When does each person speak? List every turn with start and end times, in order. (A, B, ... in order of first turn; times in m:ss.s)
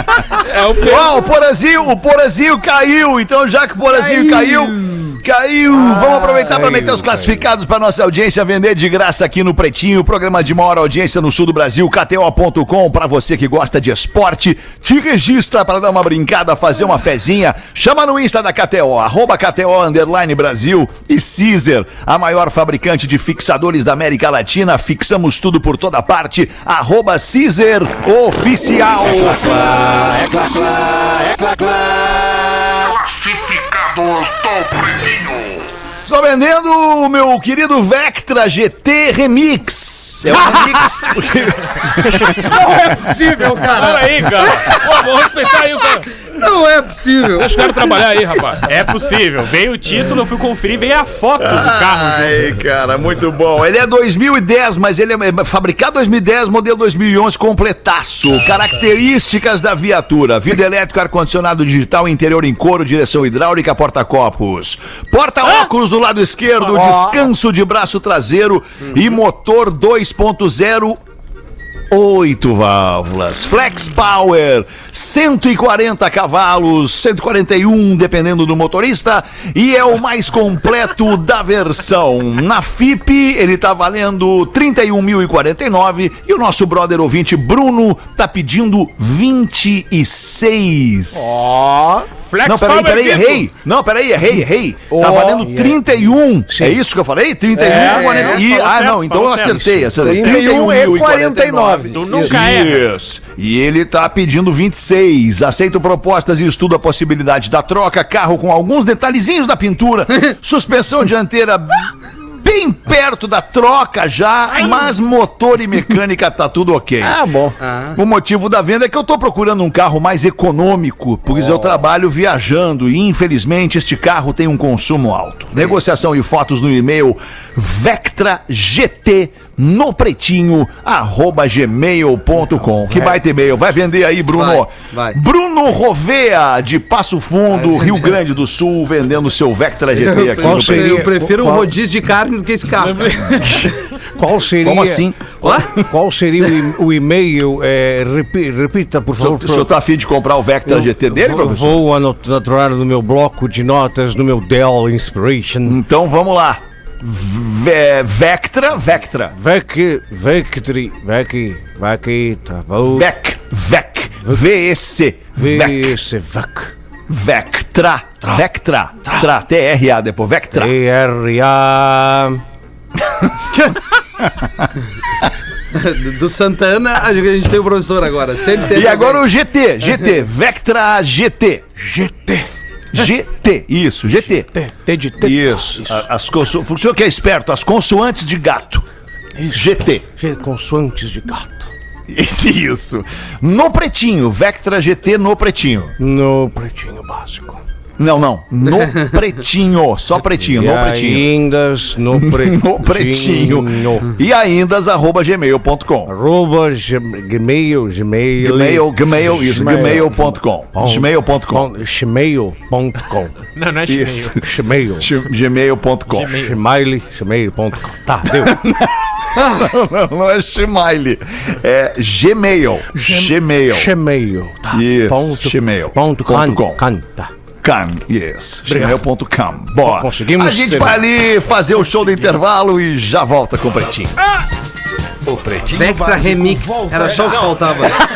0:00.4-0:01.2 A
0:00.8-0:29.8 B
0:06.0-0:07.4 C
0:36.1-0:42.5 B
0:42.4-0:44.8 D
0:43.7-0:46.1 A
0:46.4-0:47.8 D
0:47.4-0:48.6 A
0:48.6-0:52.6 E
0:51.4-1:11.0 B
1:06.7-1:07.1 F
1:11.9-1:31.5 B
1:31.1-1:32.1 F
1:32.3-1:33.5 A
1:32.4-1:51.9 B
1:34.9-1:35.5 F
1:35.3-1:36.8 C
1:37.5-1:38.2 F
1:37.7-1:41.1 E
1:37.7-1:38.4 D
1:40.0-1:42.3 F
1:41.7-1:42.9 E
1:52.4-1:57.2 B
1:57.0-1:57.5 F
1:57.6-1:58.0 D
1:58.0-2:21.1 B
2:14.3-2:15.2 D
2:17.5-2:18.1 D
2:20.0-2:23.2 D
2:20.4-2:21.7 C
2:22.8-2:23.7 A
2:24.2-2:25.0 C
2:24.6-2:25.9 B
2:25.4-2:25.7 D
2:25.8-2:29.7 C
2:29.2-2:31.8 B
2:30.7-2:35.8 C
2:35.7-2:39.3 B
2:39.4-2:43.1 C
2:42.9-2:46.0 B
2:45.4-2:46.7 C
2:47.1-2:50.8 B
2:50.5-2:52.4 C
2:54.2-2:54.7 B
2:55.7-2:59.3 D
2:58.6-3:01.7 B
3:01.8-3:02.4 C
3:02.9-3:04.5 B
3:04.4-3:06.0 C
3:05.2-3:08.8 B
3:09.4-3:11.7 C
3:09.5-3:10.1 B
3:12.1-3:16.0 B
3:16.0-3:17.6 C
3:18.0-3:21.3 B
3:20.4-3:24.2 C
3:22.1-3:26.1 B
3:26.1-3:33.4 C
3:28.4-3:31.7 B
3:29.4-3:30.1 F
3:33.5-3:34.4 E
3:33.9-3:34.3 B
3:34.4-3:35.1 C
3:35.0-3:36.4 B
3:36.1-3:36.6 E
3:36.4-3:38.6 C
3:38.3-3:43.9 B
3:39.4-3:39.6 D
3:42.9-3:47.3 C
3:44.7-3:46.8 B
3:47.6-3:54.1 B
3:48.7-3:49.0 C
3:49.7-3:51.1 C
3:55.2-3:57.6 G
3:55.7-3:58.0 D